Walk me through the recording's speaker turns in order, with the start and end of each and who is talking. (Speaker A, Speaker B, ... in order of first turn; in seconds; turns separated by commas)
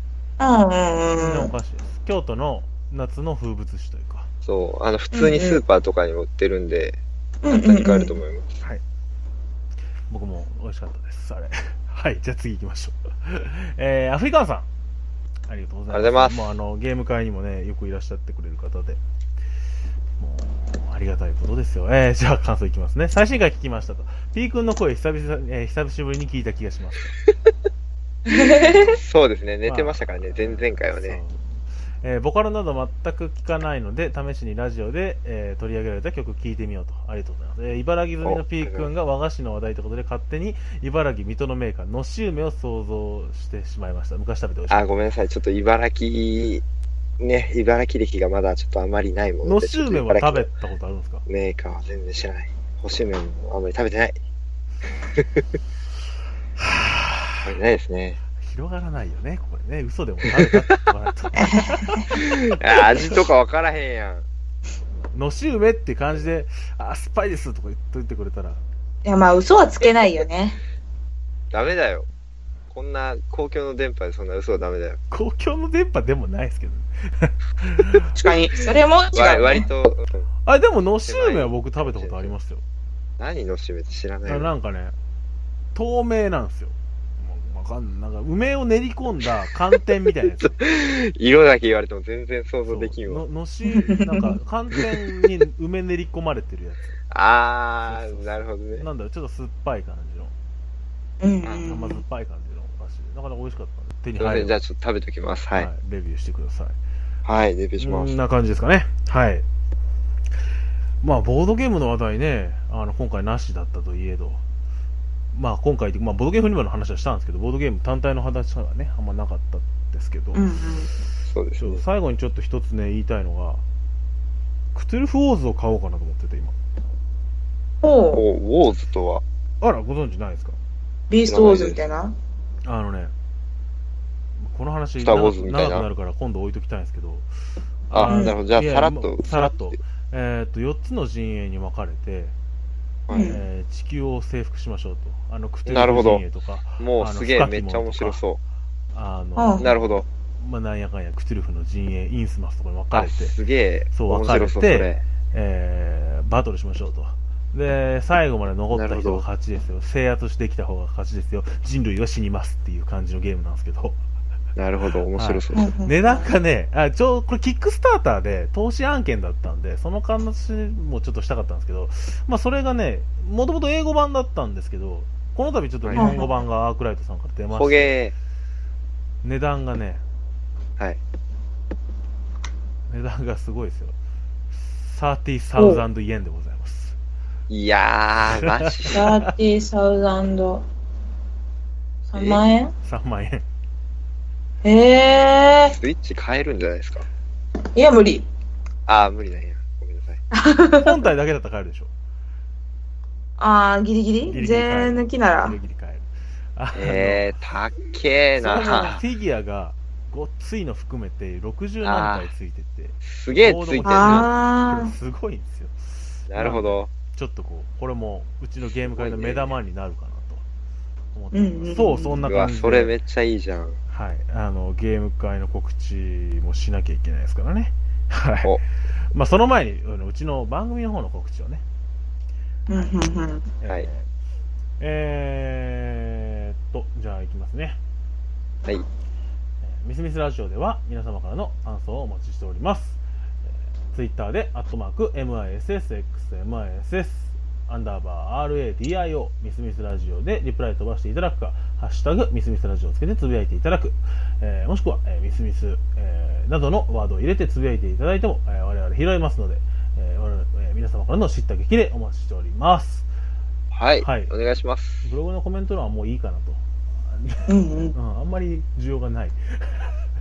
Speaker A: 0.4-1.5, Speaker B: 1.0-4.3, Speaker C: 4.4-8.6, Speaker A: 5.1-5.6, Speaker A: 7.4-8.2, Speaker B: 10.1-14.7, Speaker B: 15.5-19.0, Speaker C: 15.9-16.4, Speaker B: 20.2-27.1, Speaker A: 28.3-28.9, Speaker C: 28.3-31.2, Speaker B: 29.6-31.4, Speaker B: 32.0-44.8, Speaker C: 38.2-38.9, Speaker C: 44.7-46.6, Speaker C: 47.2-50.5, Speaker B: 49.4-51.2, Speaker C: 51.2-54.1, Speaker C: 55.1-55.5, Speaker B: 56.6-57.5, Speaker C: 57.4-58.2, Speaker B: 58.4-62.4, Speaker A: 61.4-62.0, Speaker C: 62.1-64.2, Speaker B: 62.9-63.2, Speaker B: 65.1-68.6, Speaker A: 69.0-70.6, Speaker C: 71.5-72.1, Speaker C: 72.7-75.0, Speaker B: 75.1-78.1, Speaker A: 78.1-79.7, Speaker C: 79.1-80.3, Speaker B: 80.5-82.6, Speaker C: 81.0-82.3, Speaker C: 83.2-84.5, Speaker B: 84.2-84.9, Speaker B: 85.7-90.5, Speaker C: 90.4-93.2, Speaker B: 92.7-97.0, Speaker A: 93.7-94.3, Speaker C: 97.1-98.8, Speaker B: 97.8-100.3, Speaker A: 101.2-102.0, Speaker C: 101.4-101.7, Speaker B: 101.6-104.6, Speaker C: 104.2-105.7, Speaker B: 105.5-106.8, Speaker C: 107.2-108.1, Speaker B: 107.8-109.4, Speaker B: 111.0-114.4, Speaker B: 115.3-120.4, Speaker A: 120.3-120.9, Speaker C: 121.3-121.8, Speaker B: 121.6-123.6, Speaker B: 124.7-126.5, Speaker A: 127.8-128.2, Speaker C: 128.1-129.2, Speaker B: 129.6-130.6, Speaker A: 131.1-132.1, Speaker C: 131.2-131.8, Speaker B: 132.6-133.1, Speaker B: 134.4-137.3, Speaker C: 135.0-135.9, Speaker B: 137.9-142.3, Speaker C: 137.9-139.8, Speaker A: 138.1-138.4, Speaker C: 143.1-143.3, Speaker A: 143.1-143.4, Speaker B: 143.2-148.2, Speaker C: 145.7-146.2, Speaker C: 146.8-148.4, Speaker B: 148.9-149.7, Speaker A: 149.4-149.7, Speaker C: 149.6-150.1, Speaker B: 150.4-153.3, Speaker C: 152.9-155.0, Speaker B: 153.9-164.0, Speaker C: 158.7-159.2, Speaker C: 164.6-165.7, Speaker B: 165.1-178.0, Speaker A: 165.5-166.3, Speaker C: 175.8-176.2, Speaker A: 175.9-176.3, Speaker C: 177.5-178.1, Speaker B: 179.2-180.0, Speaker B: 182.9-183.9, Speaker B: 184.5-186.9, Speaker A: 185.6-185.8, Speaker C: 187.5-189.0, Speaker B: 188.3-189.2, Speaker A: 188.9-190.6, Speaker A: 192.1-192.7, Speaker C: 192.1-192.4, Speaker B: 192.8-193.4, Speaker A: 194.6-195.8, Speaker C: 195.7-197.1, Speaker A: 197.7-198.2, Speaker C: 198.9-200.2, Speaker A: 200.3-201.0, Speaker B: 200.8-201.9, Speaker A: 203.4-205.6, Speaker B: 204.2-206.0, Speaker B: 206.6-207.3, Speaker C: 206.7-209.0, Speaker B: 208.4-215.8, Speaker C: 211.8-212.3, Speaker C: 213.0-214.3, Speaker A: 213.8-214.9, Speaker C: 216.3-216.9, Speaker B: 216.3-220.4, Speaker C: 218.8-219.5, Speaker B: 221.1-222.9, Speaker A: 221.3-222.2, Speaker C: 222.2-223.8, Speaker B: 223.9-228.6, Speaker B: 229.1-231.6, Speaker A: 232.7-233.4, Speaker B: 233.6-234.1, Speaker B: 234.8-237.8, Speaker B: 239.6-243.0, Speaker B: 243.9-263.1, Speaker C: 263.7-265.0, Speaker B: 264.0-264.3, Speaker B: 265.0-269.9, Speaker A: 267.5-267.9